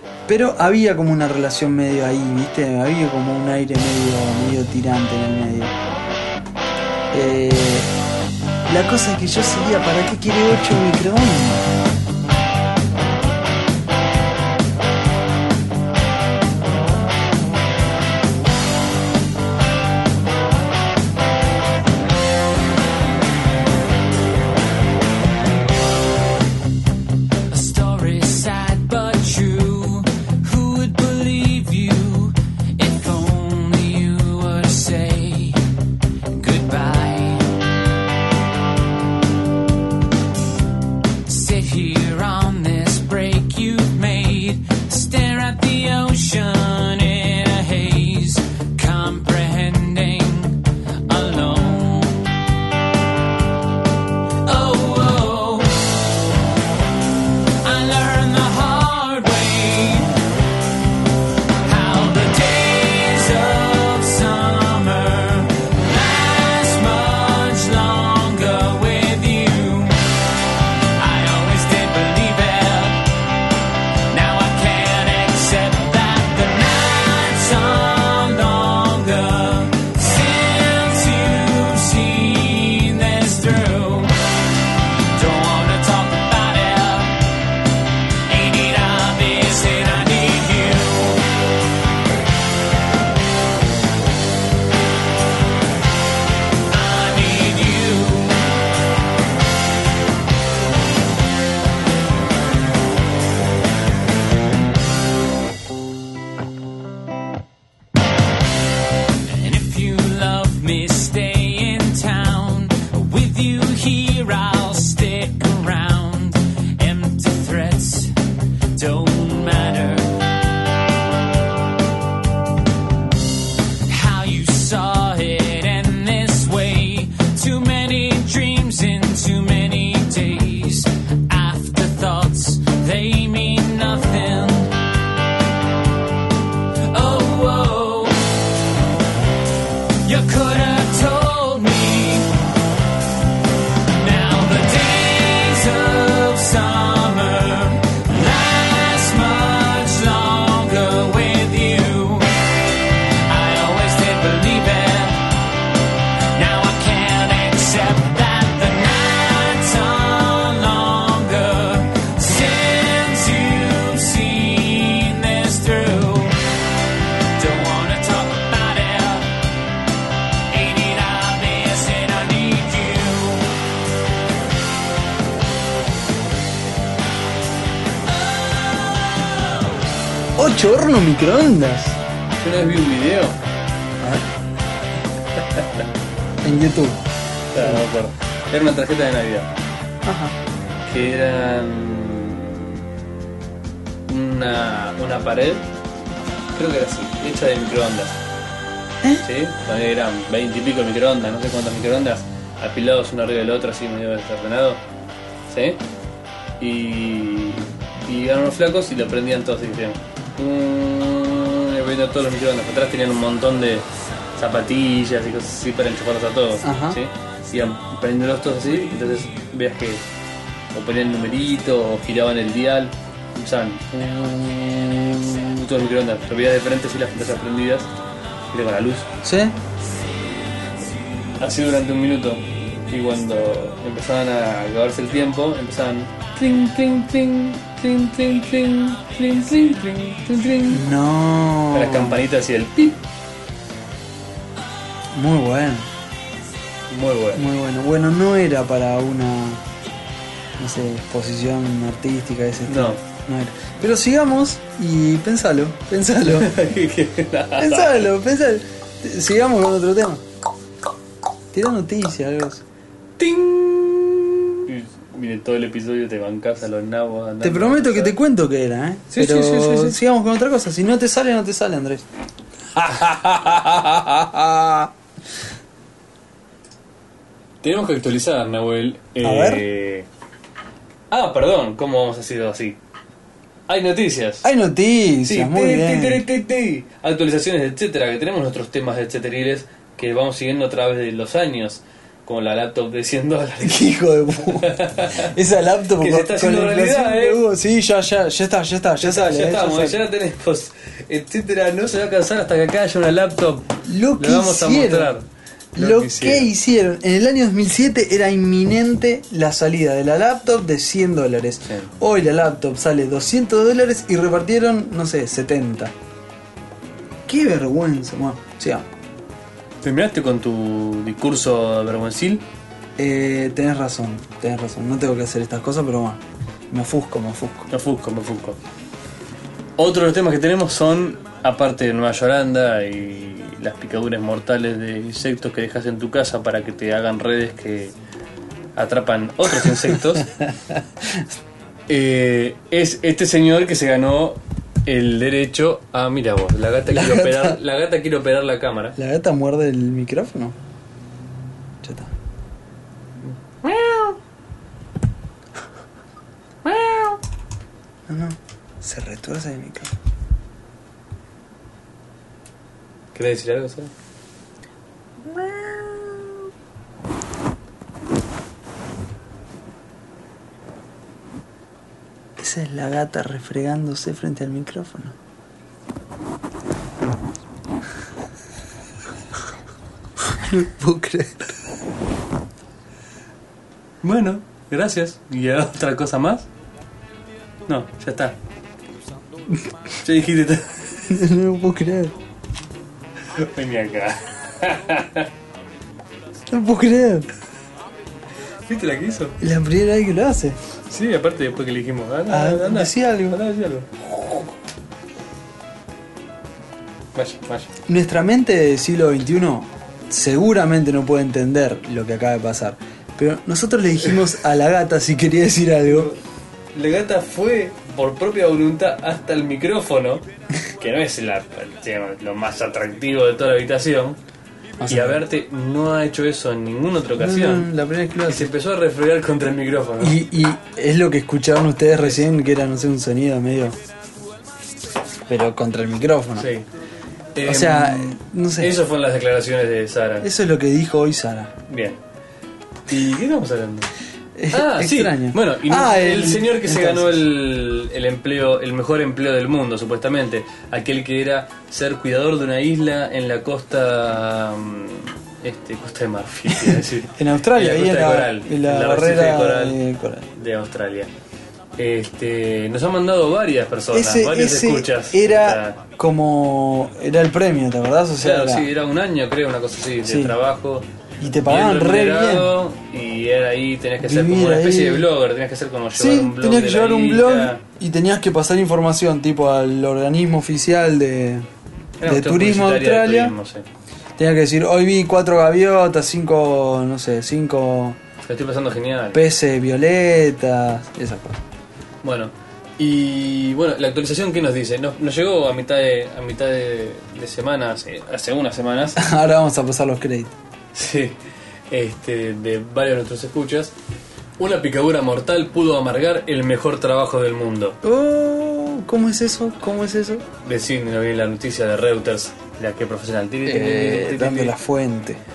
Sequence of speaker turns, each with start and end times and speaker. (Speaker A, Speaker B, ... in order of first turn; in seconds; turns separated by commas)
Speaker A: 0.3-5.7, Speaker A: 7.1-7.9, Speaker A: 8.7-11.7, Speaker B: 27.5-35.6, Speaker B: 36.3-37.5, Speaker B: 41.2-52.3, Speaker B: 54.4-56.0, Speaker B: 57.6-60.2, Speaker B: 61.6-70.0, Speaker B: 71.0-73.1, Speaker B: 74.1-84.1, Speaker B: 85.1-87.2, Speaker B: 88.3-91.3, Speaker B: 96.7-98.5, Speaker B: 109.3-118.2, Speaker B: 118.7-120.2, Speaker B: 123.9-134.8, Speaker B: 136.9-138.3, Speaker B: 140.0-142.3, Speaker B: 143.9-155.2, Speaker B: 156.3-166.4, Speaker B: 167.3-169.3, Speaker B: 170.5-173.5, Speaker A: 180.4-182.0, Speaker C: 182.4-183.4, Speaker A: 184.0-184.2, Speaker C: 185.3-185.9, Speaker A: 186.4-187.0, Speaker C: 187.5-189.5, Speaker A: 187.5-187.8, Speaker A: 190.0-190.4, Speaker C: 190.8-192.8, Speaker C: 194.1-195.7, Speaker C: 196.5-198.2, Speaker C: 199.2-204.8, Speaker C: 205.5-205.8, Speaker C: 206.6-220.0, Speaker A: 216.6-217.0, Speaker C: 220.7-227.9, Speaker C: 228.5-229.1, Speaker A: 229.2-229.6, Speaker C: 231.4-240.9, Speaker A: 240.7-242.2, Speaker C: 241.7-243.0, Speaker A: 245.1-245.9, Speaker C: 246.9-247.5, Speaker A: 247.3-249.6, Speaker A: 250.6-256.6, Speaker C: 252.7-253.0, Speaker C: 256.3-258.1, Speaker A: 257.6-260.2, Speaker A: 261.5-262.6, Speaker C: 263.2-268.2, Speaker A: 267.4-272.0, Speaker C: 269.1-270.0, Speaker C: 272.7-274.3, Speaker A: 273.5-274.9, Speaker C: 277.6-280.1, Speaker A: 279.2-279.6, Speaker C: 281.1-282.8, Speaker C: 283.7-284.5, Speaker A: 284.4-286.2, Speaker C: 285.2-295.3, Speaker A: 293.6-300.0, Speaker C: 296.0-297.4, Speaker C: 299.0-306.5, Speaker A: 303.9-305.1, Speaker A: 305.7-315.9, Speaker C: 311.6-311.9, Speaker A: 317.3-318.9, Speaker C: 319.8-322.4, Speaker A: 323.0-327.7, Speaker C: 327.7-328.6, Speaker C: 329.8-337.9, Speaker C: 338.8-340.3, Speaker A: 339.7-341.3, Speaker C: 341.9-349.0, Speaker A: 346.9-347.6, Speaker A: 349.0-350.6, Speaker A: 351.8-352.1, Speaker C: 353.6-354.2, Speaker C: 356.6-357.2, Speaker A: 358.1-359.9, Speaker C: 363.1-363.9, Speaker A: 365.3-366.5, Speaker A: 372.4-375.1, Speaker A: 380.2-381.6, Speaker C: 384.0-386.5, Speaker C: 387.7-388.4, Speaker C: 390.0-391.0, Speaker A: 391.1-392.1, Speaker C: 393.3-395.3, Speaker A: 396.5-397.3, Speaker C: 398.7-399.4, Speaker A: 399.4-400.6, Speaker C: 400.9-403.9, Speaker A: 402.3-403.4, Speaker A: 404.0-404.5, Speaker C: 407.1-407.7, Speaker A: 407.9-416.1, Speaker C: 415.9-416.2, Speaker C: 416.7-424.2, Speaker A: 424.8-425.2, Speaker C: 424.9-427.7, Speaker A: 427.2-428.5, Speaker C: 428.2-430.2, Speaker A: 430.0-433.8, Speaker A: 435.3-436.5, Speaker C: 436.4-436.7, Speaker C: 437.3-440.3, Speaker A: 437.4-438.7, Speaker A: 440.2-441.5, Speaker C: 441.7-442.0, Speaker C: 442.9-443.9, Speaker A: 444.3-447.2, Speaker C: 444.5-459.8, Speaker A: 456.6-460.3, Speaker C: 460.3-461.1, Speaker C: 461.8-465.8, Speaker A: 463.9-468.7, Speaker C: 468.2-470.9, Speaker A: 470.0-470.4, Speaker A: 471.2-472.5, Speaker C: 471.4-477.6, Speaker A: 474.0-475.1, Speaker A: 475.9-481.5, Speaker C: 482.0-483.6, Speaker A: 482.0-483.3, Speaker A: 484.2-488.0, Speaker C: 488.2-489.2, Speaker A: 489.1-491.4, Speaker C: 492.0-499.0, Speaker A: 499.0-500.3, Speaker C: 500.7-501.2, Speaker C: 501.7-503.7, Speaker C: 504.4-507.8, Speaker A: 507.8-510.2, Speaker C: 510.4-514.5, Speaker A: 513.4-515.2